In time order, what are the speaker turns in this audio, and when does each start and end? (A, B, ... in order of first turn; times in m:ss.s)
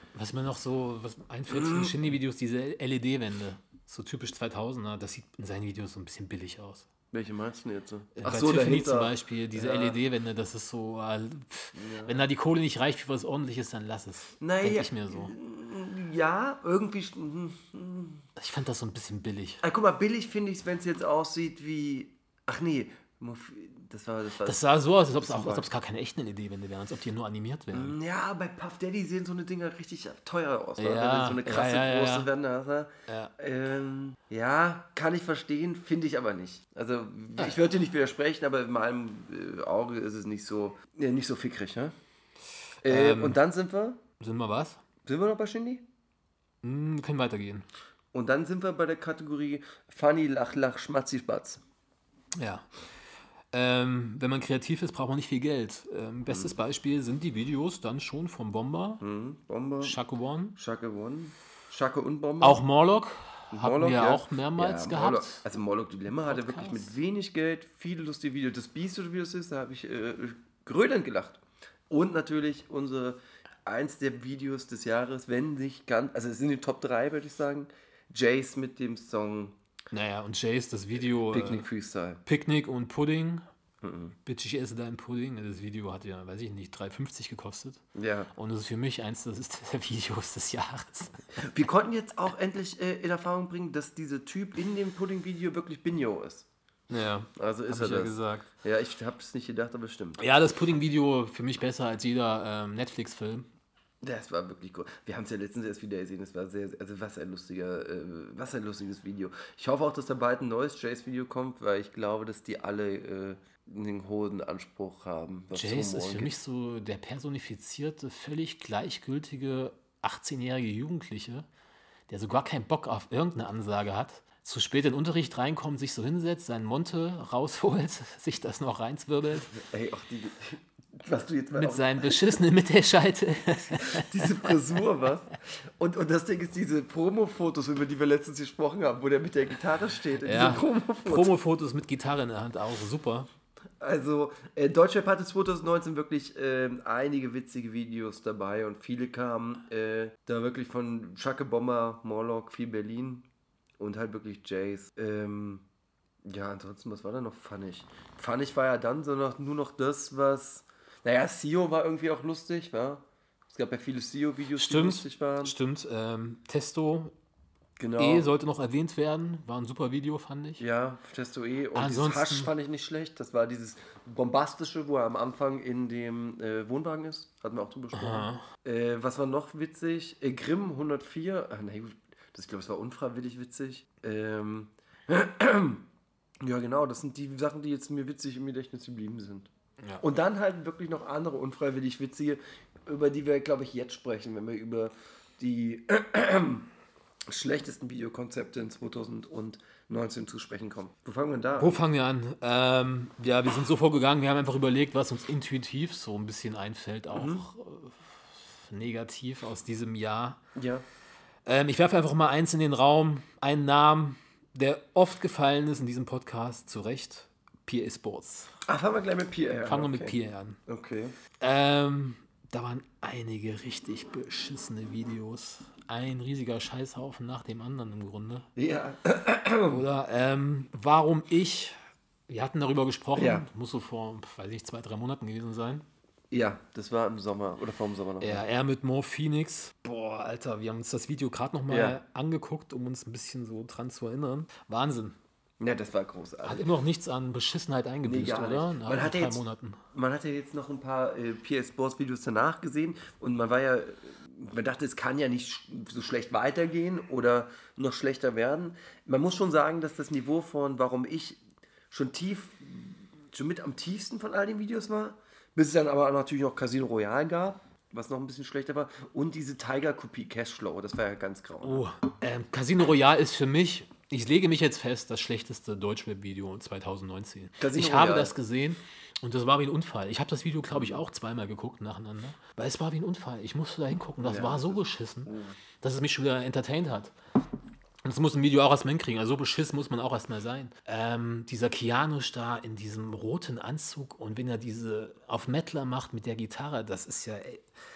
0:00.1-0:06.8 A
0:01.5-0:02.0 B
0:07.1-0:10.0 B
0:08.2-0:15.3 A
0:11.7-0:12.2 B
0:14.4-0:18.2 B
0:18.4-0:19.6 A
0:19.6-0:25.7 B
0:24.4-0:28.0 A
0:27.7-0:41.9 B
0:30.8-0:32.3 A
0:33.1-0:33.3 A
0:42.8-0:43.4 A
0:42.8-0:44.0 B
0:44.2-0:44.8 A
0:45.0-0:45.8 B
0:46.6-0:47.6 A
0:48.1-0:51.6 B
0:52.3-0:52.7 A
0:53.5-0:59.0 A
0:56.3-0:56.5 B
0:59.0-1:00.0 B
0:59.8-1:00.6 A
1:00.6-1:02.6 B
1:02.4-1:05.4 A
1:03.5-1:19.6 B
1:06.2-1:06.9 A
1:19.9-1:21.6 A
1:21.2-1:22.2 B
1:22.2-1:23.4 A
1:23.8-1:24.2 B
1:24.2-1:27.8 A
1:27.9-1:28.3 B
1:28.3-1:31.3 A
1:31.4-1:36.5 B
1:36.9-1:38.5 A
1:37.4-1:40.2 B
1:40.2-1:43.5 A
1:44.0-1:56.3 B
1:55.5-2:01.5 A
2:02.1-2:09.5 A
2:09.5-2:12.3 B
2:11.5-2:14.4 A
2:13.8-2:21.3 B
2:20.2-2:23.3 A
2:23.8-2:33.3 B
2:33.8-2:35.6 B
2:36.2-2:45.5 B
2:44.6-2:47.1 A
2:47.8-2:48.3 B
2:48.0-2:50.6 A
2:50.6-3:05.8 B
2:51.7-2:52.5 A
2:57.9-2:58.5 A
3:06.4-3:09.5 B
3:09.8-3:10.0 A
3:10.0-3:16.7 B
3:17.3-3:21.8 B
3:21.6-3:30.4 A
3:27.1-3:27.4 B
3:30.5-3:30.8 B
3:31.4-3:38.5 A
3:38.6-3:41.1 B
3:39.6-3:40.6 A
3:41.4-3:48.5 A
3:48.6-3:49.8 B
3:49.7-3:51.8 A
3:52.3-3:55.8 A
3:53.1-3:53.4 B
3:56.3-3:58.4 B
3:58.2-4:05.2 A
4:01.7-4:02.0 B
4:05.6-4:06.7 B
4:06.4-4:09.8 A
4:08.0-4:31.8 B
4:31.6-4:47.1 A
4:37.6-4:38.3 B
4:40.7-4:41.0 B
4:44.2-4:45.5 B
4:48.0-4:57.7 A